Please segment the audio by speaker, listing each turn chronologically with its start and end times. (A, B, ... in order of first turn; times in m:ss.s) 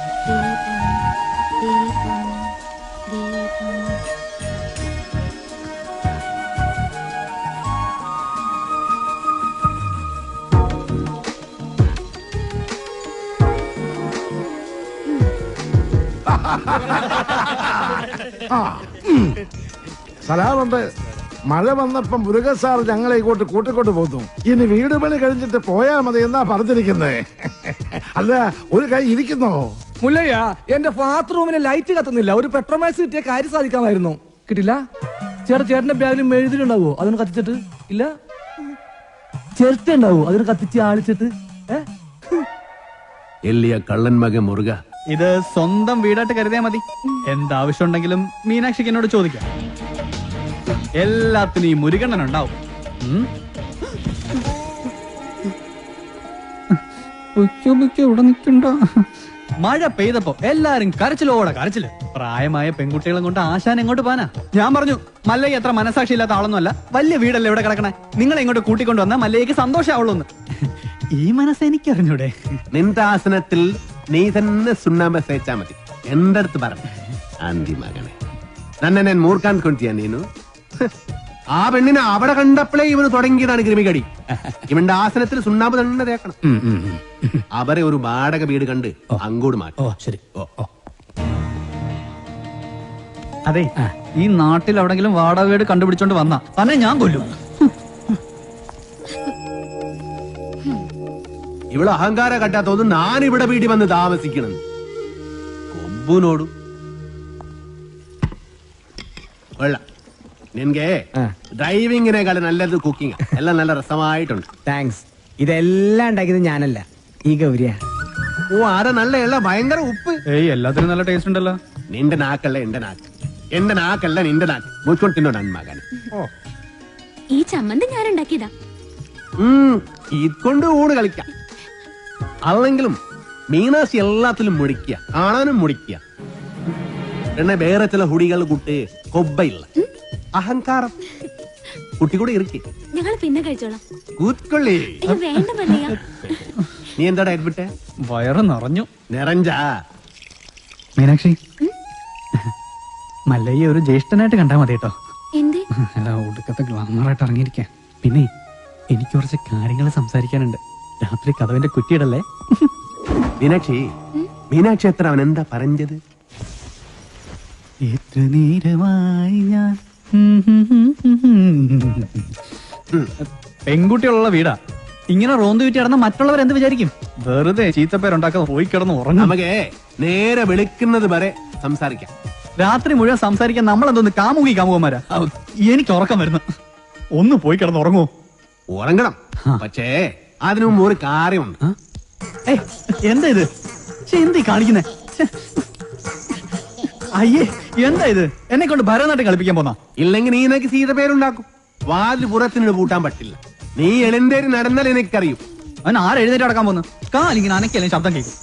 0:00.3-0:00.9 A
0:01.6-0:02.4 A
0:03.1-0:03.9 A
0:16.3-0:19.3 B
0:20.2-0:20.8 B
0:21.5-0:29.8 B
0:30.0-0:34.8 C
0:35.4-0:38.1 C
0:39.6-0:42.4 C
0:43.5-0:44.8 A
0:45.1-0:49.4 D
0:51.0-0:53.3 D
0:57.3-0:59.1 D
0:59.6-1:12.3 D
1:12.7-1:16.8 A
1:17.4-1:18.2 A
1:18.8-1:20.2 A
1:21.6-1:24.1 A
1:24.7-1:26.4 A
1:26.6-1:27.0 D
1:27.6-1:29.8 A
1:29.8-1:30.6 D
1:33.5-1:37.7 D
1:41.7-1:44.6 A
1:45.7-1:46.5 A
1:50.6-1:50.9 A
1:51.6-1:54.4 A
1:54.7-1:57.8 E
1:58.5-2:00.2 A
2:00.3-2:01.6 D
2:01.9-2:03.0 A
2:03.6-2:05.8 A
2:07.3-2:08.5 F
2:09.4-2:11.3 A
2:12.5-2:13.0 A
2:13.5-2:16.0 A
2:17.4-2:19.7 A
2:20.4-2:20.9 A
2:22.0-2:22.6 A
2:23.0-2:23.8 F
2:24.2-2:25.0 A
2:25.0-2:26.4 F
2:25.1-2:25.9 D
2:27.0-2:27.7 A
2:28.1-2:28.9 D
2:29.1-2:29.6 A
2:31.0-2:31.4 D
2:33.3-2:34.9 D
2:35.4-2:35.6 F
2:35.8-2:38.3 D
2:38.9-2:42.7 D
2:43.4-2:43.8 A
2:44.4-2:46.0 A
2:47.9-2:52.3 D
2:53.7-2:54.6 D
2:55.1-2:59.3 D
2:59.2-3:02.1 A
3:02.6-3:06.4 D
3:07.2-3:08.1 D
3:08.7-3:11.6 A
3:12.5-3:13.5 D
3:14.1-3:15.6 D
3:17.2-3:19.8 D
3:20.0-3:25.4 A
3:25.8-3:28.3 D